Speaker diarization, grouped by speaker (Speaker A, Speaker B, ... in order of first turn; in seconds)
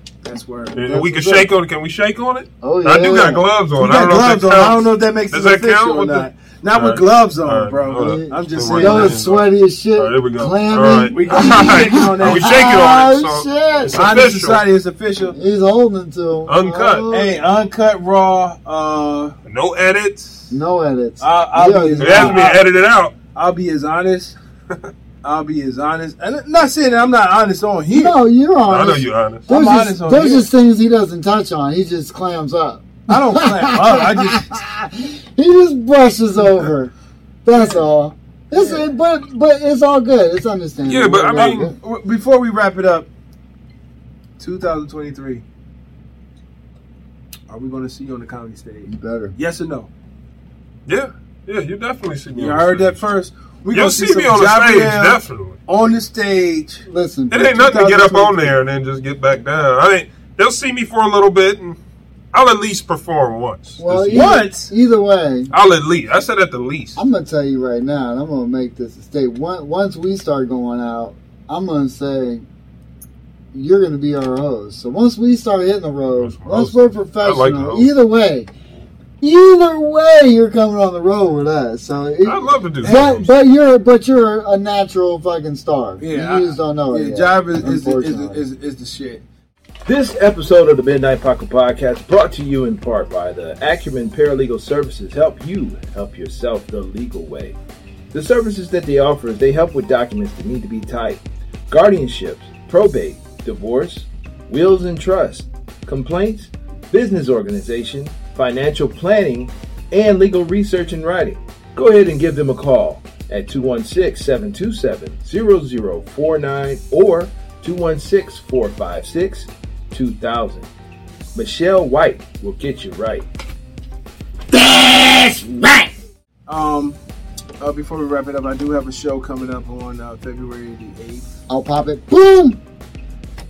Speaker A: 0.2-0.8, 3.8-9.3, 11.1-12.8, 13.9-15.4, 17.1-19.4, 21.2-22.7, 23.3-24.4, 25.2-28.1, 29.5-30.5, 33.1-34.5, 37.5-37.8, 38.5-38.9, 41.4-43.1, 44.4-45.4, 47.5-49.9, 52.3-56.9, 57.5-58.6, 64.1-64.7, 82.8-83.2, 86.0-89.2, 126.5-127.0, 127.6-131.3
Speaker B: 0.7-14.7, 16.5-17.2, 19.5-20.5, 22.0-23.1, 28.7-29.5, 40.9-41.7, 50.9-53.0, 53.7-55.6, 57.3-61.8, 62.3-64.4, 65.5-67.0, 76.2-77.9, 82.2-83.3
Speaker C: 0.8-1.5, 2.6-3.5, 8.0-14.1, 15.3-17.4, 20.5-22.4, 27.9-36.9, 37.5-41.8, 48.9-49.4, 56.9-57.8, 63.8-65.5, 67.0-72.5, 73.5-78.5, 79.2-88.4, 124.5-125.9, 131.5-132.6
Speaker D: 89.9-97.6, 98.1-120.7, 121.3-123.3